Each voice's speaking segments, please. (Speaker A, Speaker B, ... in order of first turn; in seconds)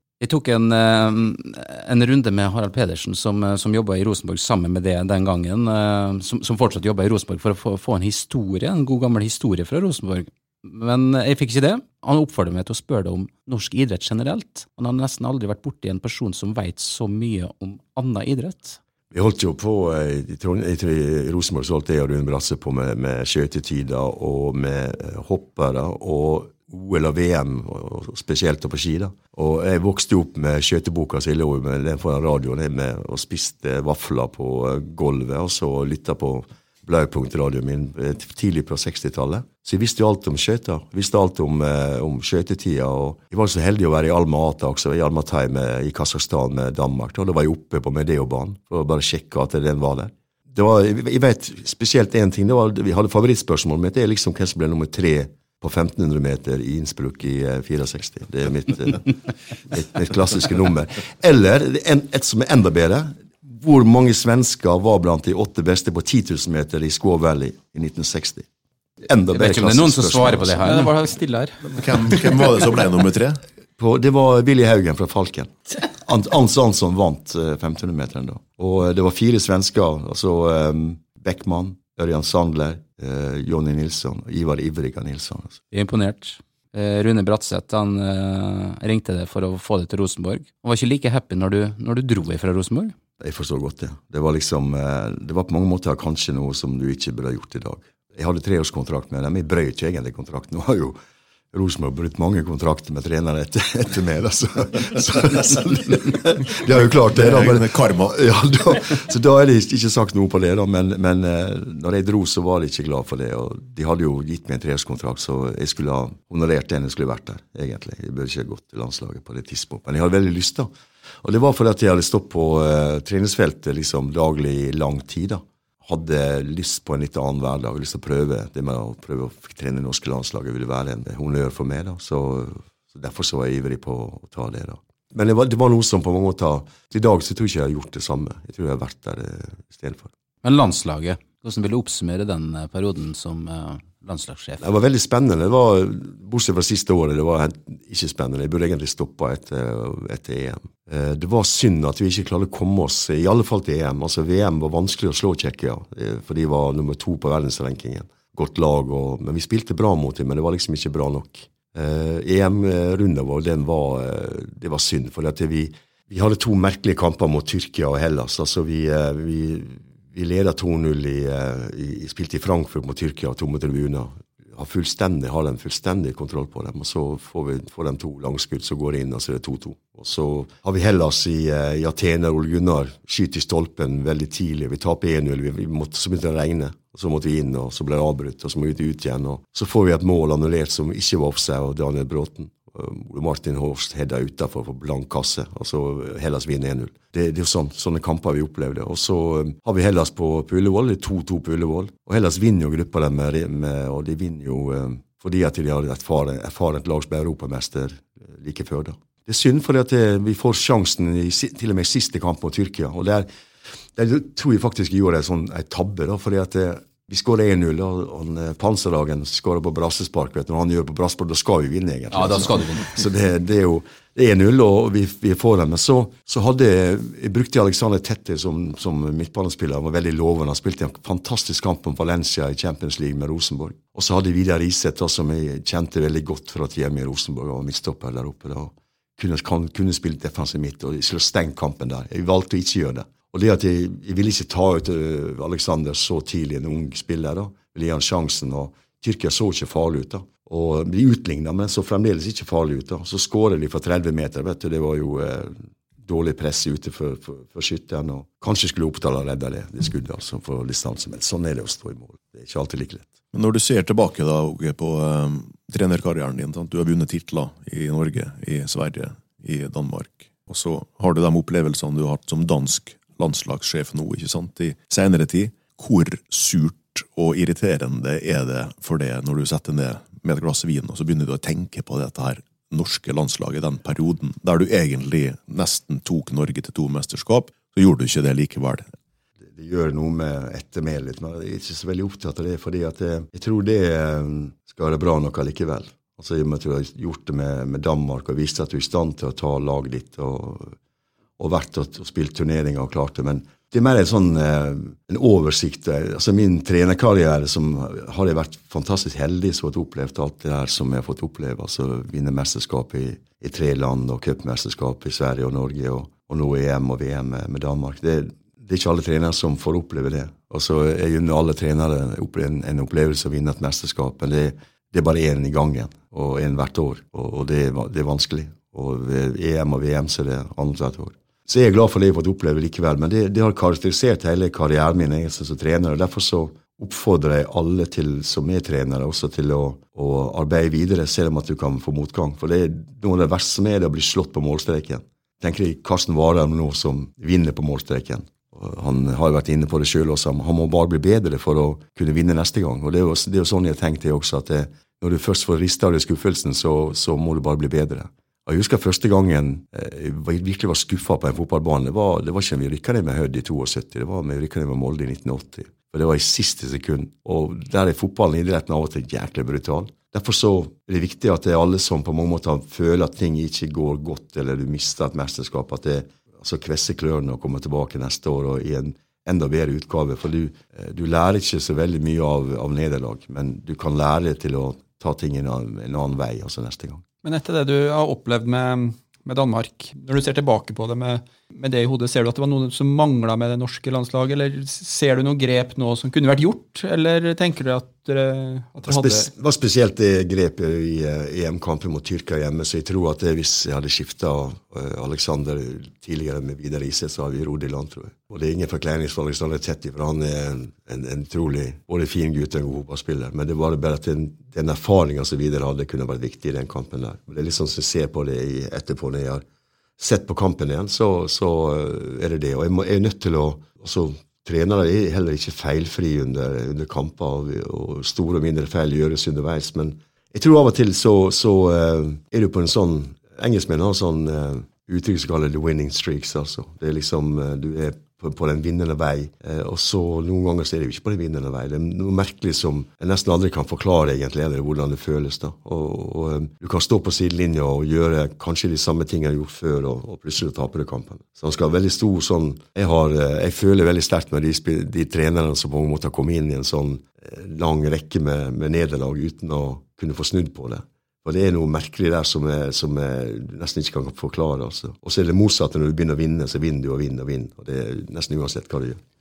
Speaker A: 0.2-18.8, 69.3-70.9, 85.7-92.9, 140.4-144.6, 222.1-222.9
Speaker B: 19.1-68.5, 69.0-70.8, 73.8-85.6, 93.2-101.0, 101.5-120.7, 121.2-140.1, 144.6-213.3, 213.9-263.1, 289.4-300.7, 301.4-387.0, 398.8-419.4, 420.0-469.0
Speaker C: 70.6-71.7, 387.2-399.3
Speaker D: 71.7-73.4, 107.1-108.1, 263.3-288.8